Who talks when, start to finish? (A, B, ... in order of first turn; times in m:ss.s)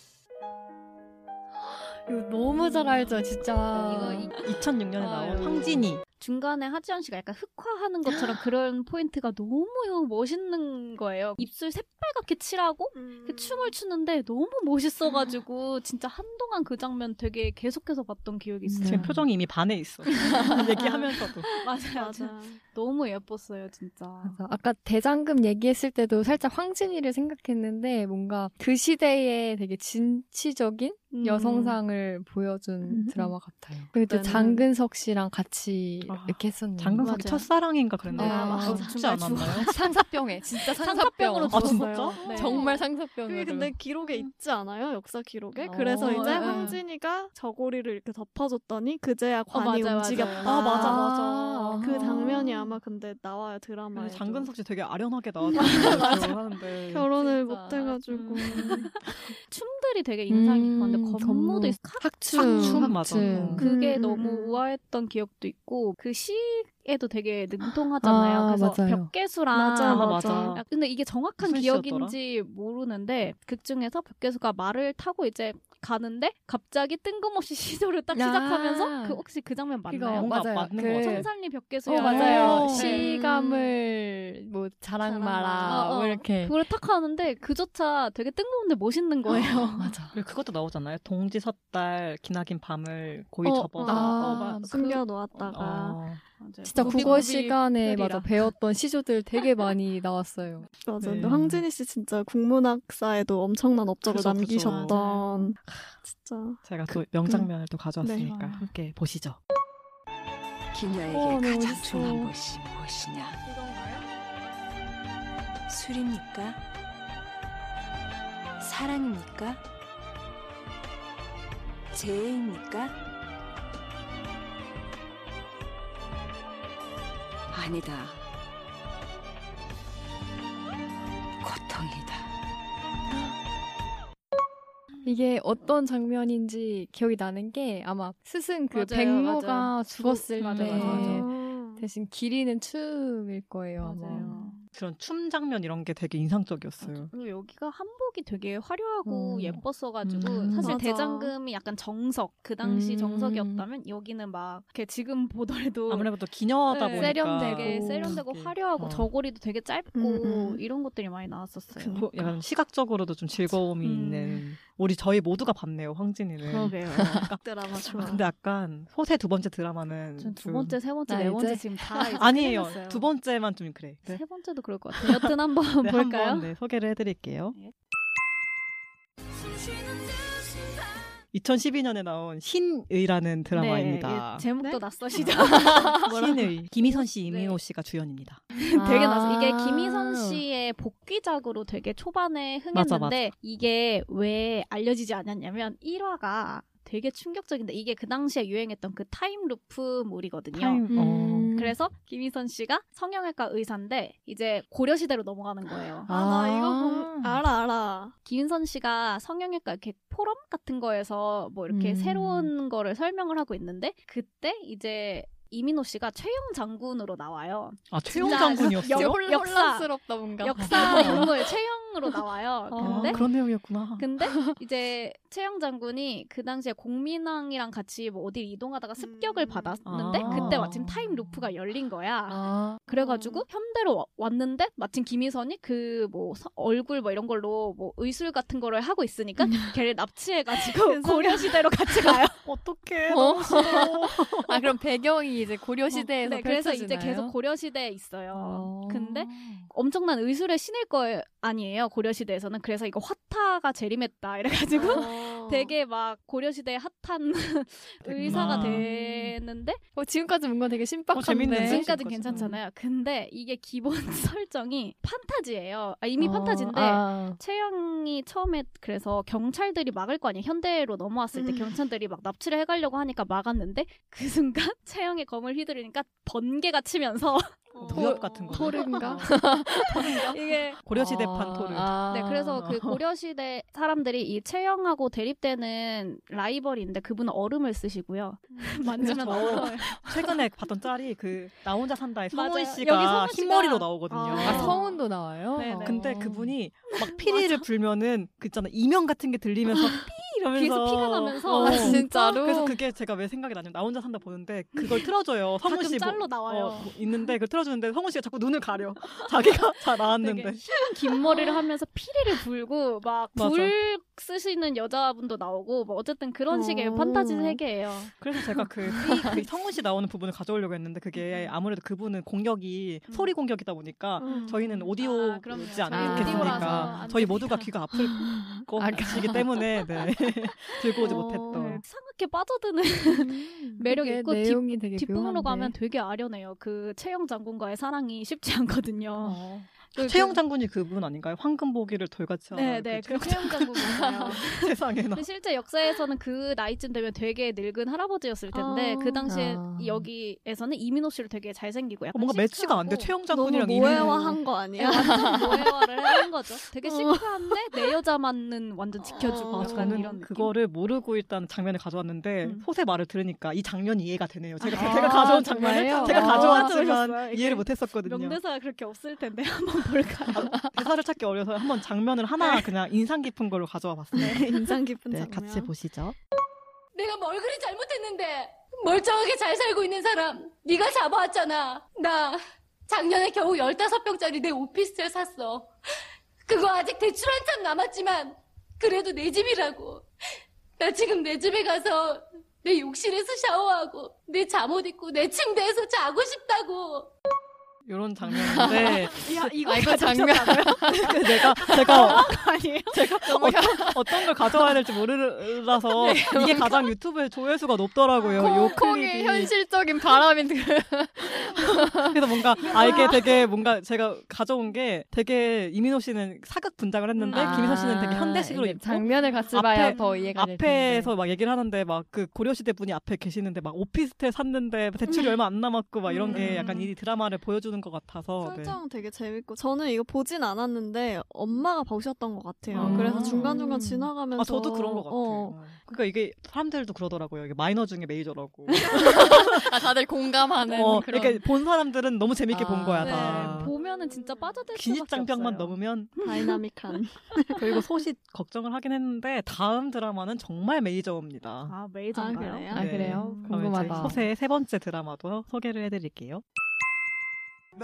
0:01.6-0:04.3 A
0:03.7-0:04.4 B
0:04.4-0:06.0 C
0:05.0-0:05.8 A
0:05.1-0:05.6 B
0:06.2-0:19.2 B
0:12.9-0:13.7 D
0:18.7-0:19.2 A
0:18.8-0:21.5 C
0:20.1-0:20.8 B
0:21.6-0:24.4 B
0:21.9-0:22.6 D
0:24.2-0:37.2 A
0:31.2-0:31.7 B
0:32.9-0:33.3 D
0:34.0-0:34.6 D
0:36.0-0:39.7 C
0:37.0-0:37.5 B
0:38.1-0:39.9 B
0:38.2-0:38.9 A
0:39.6-0:43.8 A
0:40.6-0:42.8 B
0:41.5-0:42.2 C
0:42.2-0:51.1 D
0:45.6-0:46.8 A
0:46.0-0:46.8 B
0:49.5-0:51.8 B
0:50.2-0:52.7 A
0:50.4-0:51.4 C
0:51.8-0:54.5 D
0:53.9-0:57.1 C
0:55.5-0:56.2 D
0:55.6-0:56.3 B
0:55.8-0:56.1 A
0:56.9-0:58.9 D
0:57.1-0:58.9 A
0:58.1-1:23.1 B
1:00.3-1:03.6 A
1:02.3-1:03.6 C
1:03.5-1:04.6 D
1:08.0-1:09.1 A
1:09.5-1:10.6 D
1:09.8-1:10.6 C
1:11.4-1:12.2 C
1:18.1-1:19.2 A
1:19.9-1:21.3 A
1:20.1-1:21.3 C
1:21.8-1:26.5 A
1:22.0-1:23.0 C
1:22.7-1:23.7 D
1:25.0-1:25.9 D
1:25.6-1:29.9 B
1:29.8-1:30.1 A
1:30.1-1:34.5 C
1:33.4-1:35.0 B
1:33.8-1:34.9 A
1:34.2-1:36.0 D
1:35.4-1:36.2 C
1:36.4-1:38.4 B
1:36.6-1:40.7 A
1:36.8-1:37.2 C
1:40.8-1:46.6 D
1:41.0-1:41.6 C
1:44.0-1:45.0 C
1:44.7-1:45.2 B
1:46.6-1:49.4 C
1:47.2-1:47.5 D
1:48.0-1:48.5 D
1:50.7-1:53.4 E
1:51.1-1:52.3 D
1:53.4-1:54.1 D
1:55.7-1:56.6 E
1:58.6-1:59.6 E
2:01.9-2:02.9 E
2:07.5-2:08.2 E
2:11.4-2:12.2 E
2:15.0-2:24.3 A
2:18.7-2:21.2 B
2:20.4-2:21.2 C
2:20.8-2:21.8 D
2:23.8-2:24.6 B
2:24.1-2:27.1 C
2:26.8-2:36.1 B
2:29.0-2:29.6 A
2:30.0-2:30.8 C
2:30.6-2:31.3 D
2:32.6-2:33.6 A
2:35.9-2:39.1 C
2:36.7-2:42.0 B
2:36.9-2:38.2 A
2:39.9-2:40.6 D
2:41.8-2:42.2 D
2:41.9-2:47.4 C
2:43.8-2:44.4 B
2:46.5-2:47.2 B
2:46.5-2:47.3 A
2:47.4-2:48.2 D
2:48.0-2:50.8 C
2:50.2-2:53.1 B
2:51.1-2:52.2 A
2:52.2-2:54.2 C
2:54.0-2:56.5 B
2:55.0-2:57.6 C
3:01.3-3:04.4 C
3:03.5-3:07.6 B
3:05.2-3:08.4 C
3:05.5-3:06.0 A
3:08.6-3:20.8 B
3:08.7-3:10.4 A
3:12.7-3:13.2 C
3:20.5-3:21.5 C
3:20.9-3:21.7 A
3:21.5-3:26.1 B
3:26.0-3:27.4 A
3:26.1-3:28.1 D
3:28.2-3:43.2 B
3:31.7-3:32.5 A
3:37.9-3:39.2 C
3:38.2-3:41.3 A
3:40.6-3:41.3 C
3:42.7-3:44.0 C
3:42.8-3:43.3 A
3:44.0-4:02.4 B
3:44.2-3:44.5 A
3:49.0-3:49.8 D
3:49.8-3:51.4 C
3:50.2-3:50.8 A
3:52.3-3:52.9 A
3:53.0-3:53.4 D
4:00.6-4:02.1 D
4:02.4-4:04.7 C
4:03.1-4:07.3 A
4:06.1-4:19.8 B
4:08.3-4:09.6 A
4:14.7-4:15.7 D
4:18.0-4:18.9 C
4:18.2-4:19.3 A
4:20.0-4:22.5 A
4:21.1-4:22.6 C
4:21.4-4:38.2 B
4:26.2-4:27.4 A
4:31.3-4:31.7 D
4:37.7-4:38.8 D
4:37.8-4:42.0 C
4:37.9-4:40.2 A
4:38.8-4:39.2 B
4:40.0-4:40.8 B
4:40.9-4:42.6 A
4:42.1-4:50.4 B
4:42.5-4:43.0 C
4:48.9-4:54.8 C
4:49.0-4:49.7 A
4:52.3-4:54.9 B
4:54.4-4:54.8 D
4:54.4-4:56.5 A
4:55.6-4:56.1 B
4:55.8-5:10.6 C
4:56.9-4:57.6 B
5:00.5-5:02.2 B
5:01.6-5:02.8 A
5:05.6-5:06.9 B
5:10.0-5:18.1 B
5:13.3-5:13.7 C
5:16.5-5:17.6 D
5:18.2-5:31.8 C
5:18.9-5:19.4 A
5:23.1-5:23.3 B
5:24.2-5:24.6 D
5:24.3-5:27.7 B
5:25.9-5:27.1 A
5:27.9-5:29.6 A
5:31.0-5:40.4 B
5:31.0-5:31.8 D
5:33.1-5:35.7 A
5:39.2-5:45.2 C
5:42.5-5:53.1 B
5:48.5-5:49.3 D
5:49.2-5:50.0 A
5:52.1-5:54.4 C
5:53.3-5:56.2 D
5:53.8-6:00.5 B
5:56.8-5:57.9 D
5:59.0-6:00.1 D
5:59.5-6:08.4 C
6:04.6-6:10.5 B
6:04.7-6:06.8 A
6:06.6-6:07.5 D
6:10.3-6:16.1 C
6:14.2-6:15.7 D
6:16.9-6:25.7 F
6:26.4-6:30.0 F
6:30.8-6:37.1 F
6:37.8-6:39.8 C
6:38.3-6:39.1 A
6:38.6-6:43.7 B
6:39.6-6:42.2 A
6:40.8-6:42.3 C
6:42.9-6:49.5 C
6:43.2-6:44.7 A
6:45.9-6:46.9 A
6:48.3-6:48.7 B
6:48.4-6:53.2 A
6:51.8-7:08.8 C
6:52.6-6:53.4 B
6:57.2-6:57.8 B
6:57.3-7:01.1 A
6:59.9-7:00.3 B
7:06.1-7:06.8 D
7:08.4-7:15.6 D
7:12.7-7:13.7 C
7:12.8-7:13.1 B
7:12.8-7:14.0 A
7:14.3-7:19.7 C
7:18.9-7:21.4 A
7:20.7-7:23.7 C
7:22.5-7:23.6 A
7:23.0-7:26.6 B
7:24.7-7:26.1 C
7:26.2-7:27.8 D
7:27.6-7:31.7 C
7:31.7-7:34.2 B
7:32.1-7:33.2 D
7:32.7-7:34.2 A
7:32.7-7:36.4 C